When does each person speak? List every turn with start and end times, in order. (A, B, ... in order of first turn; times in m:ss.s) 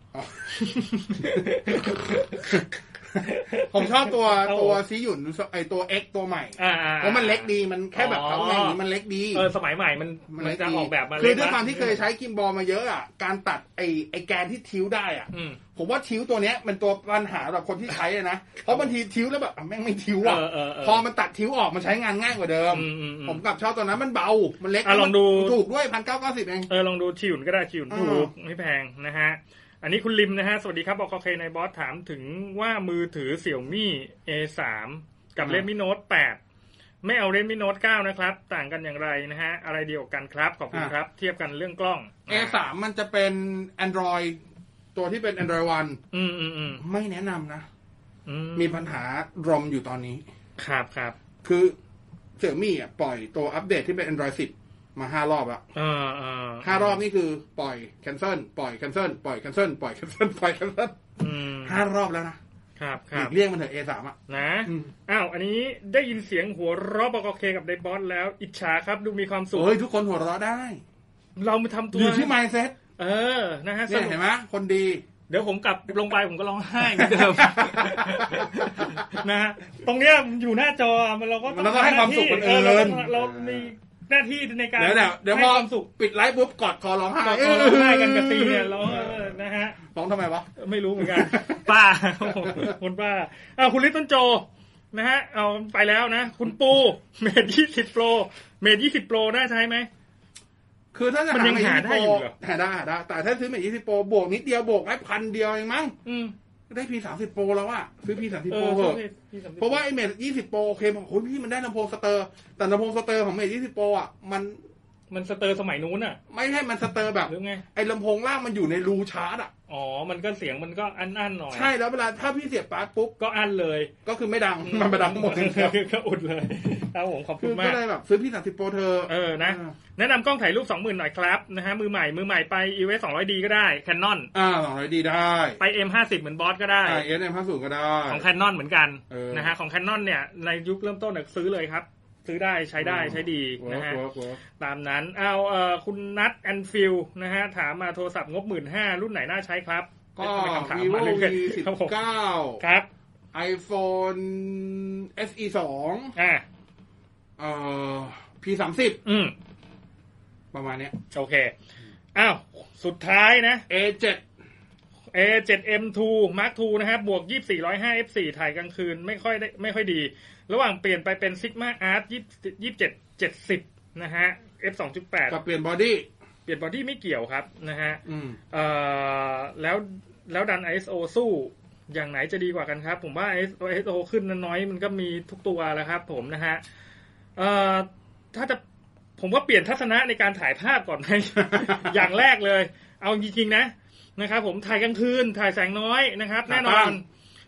0:00.1-0:00.5 A
0:00.5-0:02.6 B
0:01.2-0:09.4 A
0:03.2-0:04.8 B
0:06.6-0:08.8 B
0:09.3-0:12.0 B
0:10.3-0:26.7 A
0:15.3-0:15.6 B
0:20.2-0:21.0 B
0:22.7-0:23.4 B
0:24.8-0:25.6 B
0:26.7-0:36.4 B
0:27.9-0:28.3 A
0:35.4-0:35.7 A
0:37.0-0:42.6 B
0:42.3-0:44.4 A
0:44.9-0:46.0 A
0:46.1-0:46.8 B
0:46.8-0:47.6 A
0:48.2-0:48.8 B
0:48.6-0:50.2 A
0:50.6-0:51.1 B
0:51.4-0:51.7 A
0:52.4-0:55.6 A
0:55.7-0:57.0 B
0:56.6-1:02.4 A
1:01.2-1:01.8 B
1:02.8-1:03.3 B
1:03.1-1:04.9 A
1:04.3-1:09.7 B
1:09.5-1:10.8 A
1:11.4-1:12.3 B
1:11.9-1:12.8 A
1:13.0-1:14.2 B
1:13.9-1:15.0 A
1:15.3-1:25.9 B
1:16.8-1:19.2 A
1:21.5-1:23.7 A
1:24.8-1:31.7 A
1:27.2-1:29.8 B
1:30.6-1:39.9 B
1:32.3-1:32.7 A
1:40.9-1:45.9 A
1:41.3-1:42.3 B
1:46.0-1:46.3 B
1:46.7-1:49.0 A
1:48.5-1:49.8 B
1:49.6-1:54.6 A
1:55.1-1:56.2 B
1:56.3-1:59.5 A
1:57.2-1:57.6 B
1:59.7-2:01.7 B
2:01.5-2:03.1 A
2:03.2-2:03.9 B
2:04.0-2:05.7 A
2:04.6-2:07.8 B
2:07.4-2:09.8 A
2:09.1-2:14.3 B
2:14.3-2:15.6 A
2:15.6-2:17.0 B
2:16.8-2:18.2 A
2:18.1-2:24.0 B
2:19.1-2:19.5 A
2:22.8-2:24.4 A
2:24.6-2:31.9 B
2:30.2-2:32.6 A
2:32.6-2:32.9 B
2:33.3-2:36.1 A
2:36.2-2:36.4 B
2:37.4-2:39.0 A
2:39.0-2:39.3 B
2:40.5-2:41.0 A
2:41.1-2:41.5 B
2:42.1-2:43.6 B
2:43.7-2:44.2 A
2:45.1-2:55.4 B
2:55.3-2:56.1 A
2:56.4-2:58.0 B
2:58.0-2:58.4 A
2:58.5-3:06.6 B
3:07.4-3:08.6 B
3:09.2-3:17.0 B
3:11.4-3:12.0 A
3:16.5-3:17.0 A